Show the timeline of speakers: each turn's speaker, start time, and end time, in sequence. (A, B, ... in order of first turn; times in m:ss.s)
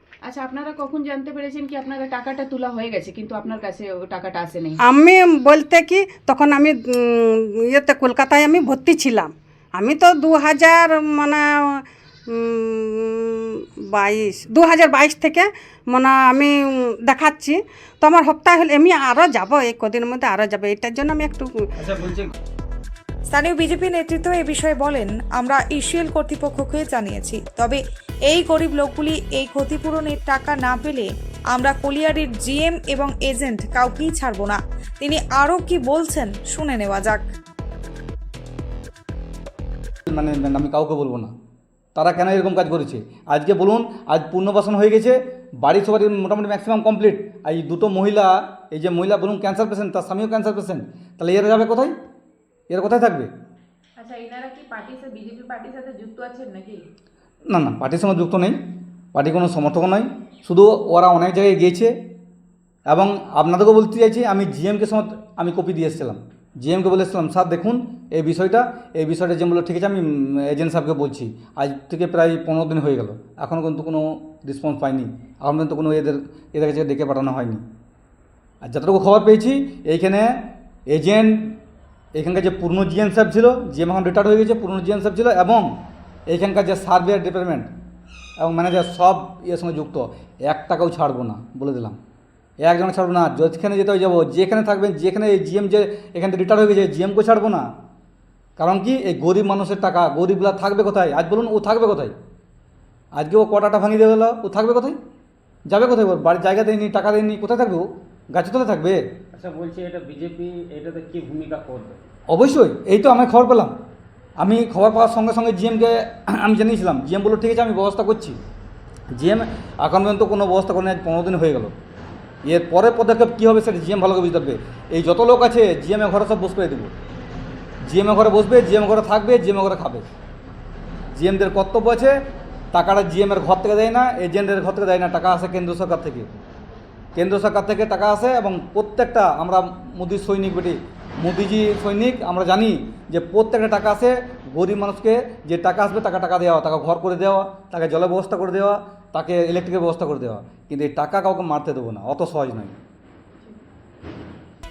0:00.2-0:04.8 A
0:04.8-0:21.7 B
0:21.8-0:22.3 C
0:23.3-0:37.2 D
0:40.1-0:41.3 E
0:42.0-0:52.0 E
0:52.7-0:53.3 E
0:54.0-0:56.8 A
0:57.5-1:01.9 E
1:02.9-1:17.6 E
1:18.6-1:21.6 E
1:22.1-1:27.7 E
1:28.4-1:32.0 E
1:32.6-1:37.6 E
1:38.6-1:42.1 E
1:43.1-1:45.0 E
1:45.7-1:49.0 E
1:49.3-1:52.0 C
1:52.3-1:53.8 E
1:54.4-1:58.4 E
1:59.1-2:01.7 E
2:02.4-2:06.9 E
2:07.9-2:10.0 E
2:11.1-2:12.2 E
2:12.7-2:16.4 E
2:17.2-2:32.8 E